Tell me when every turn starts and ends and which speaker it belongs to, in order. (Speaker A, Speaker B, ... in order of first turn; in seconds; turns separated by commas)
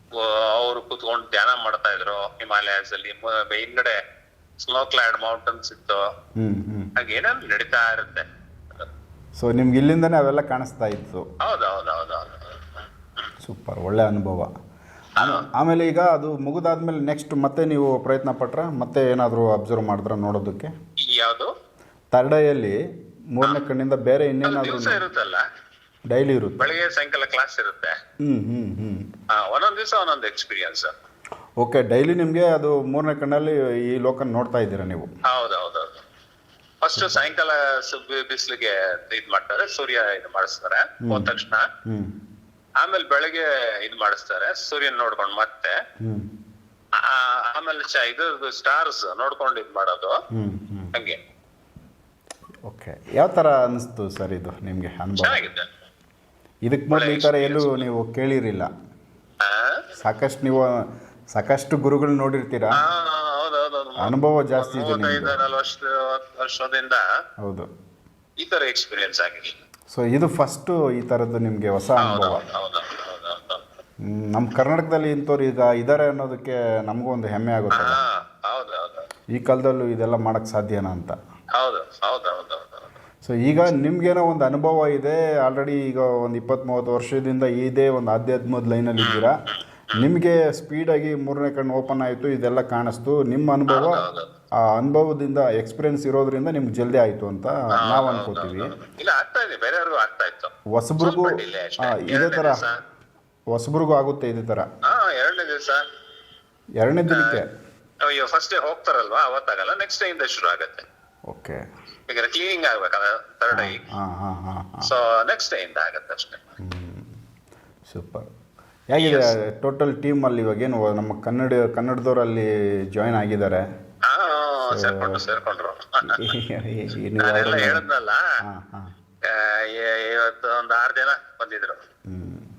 Speaker A: 0.2-4.0, Speaker A: 4.6-6.0, Speaker B: 6.4-6.9, Speaker A: 7.0-8.9, Speaker B: 9.3-11.2, Speaker A: 11.4-13.3, Speaker B: 13.4-14.5, Speaker A: 15.2-15.4, Speaker B: 15.2-20.7, Speaker A: 21.1-21.5, Speaker B: 22.1-22.8, Speaker B: 23.3-25.0, Speaker A: 24.4-25.4, Speaker B: 26.1-26.7, Speaker A: 26.6-27.9, Speaker B: 28.2-29.1, Speaker A: 29.3-30.9, Speaker B: 31.6-35.1, Speaker A: 35.3-36.0, Speaker A: 36.8-41.7, Speaker B: 41.0-41.3, Speaker B: 41.9-42.1, Speaker A: 42.8-45.7, Speaker B: 46.0-46.3, Speaker A: 47.0-50.1, Speaker B: 50.3-50.9, Speaker B: 52.7-55.4, Speaker A: 55.2-55.7, Speaker B: 56.6-58.7, Speaker A: 56.9-57.8, Speaker A: 59.4-59.8, Speaker B: 60.0-60.7, Speaker B: 61.4-62.8, Speaker A: 62.8-67.0, Speaker B: 64.0-65.4, Speaker A: 68.4-69.6, Speaker B: 69.9-72.4, Speaker A: 72.0-73.6, Speaker B: 74.0-78.0, Speaker A: 77.7-79.1, Speaker B: 79.3-81.1, Speaker A: 81.6-82.9, Speaker B: 83.2-89.3, Speaker A: 89.0-90.0, Speaker B: 89.9-94.0, Speaker A: 93.7-94.2, Speaker B: 94.6-98.7, Speaker A: 97.8-102.8, Speaker B: 100.7-102.7, Speaker B: 103.5-104.7, Speaker A: 104.9-105.8, Speaker B: 106.8-107.4, Speaker A: 107.1-107.4, Speaker A: 108.0-110.8, Speaker B: 111.3-111.6, Speaker A: 112.1-113.8, Speaker B: 113.5-114.9, Speaker A: 114.8-116.4, Speaker B: 116.6-117.1, Speaker B: 117.9-118.3, Speaker B: 118.9-123.6, Speaker A: 119.0-119.3, Speaker A: 124.1-126.2, Speaker B: 124.7-125.2, Speaker B: 126.0-127.8, Speaker A: 127.2-128.2, Speaker B: 128.4-128.9, Speaker A: 129.3-131.8, Speaker B: 132.1-132.4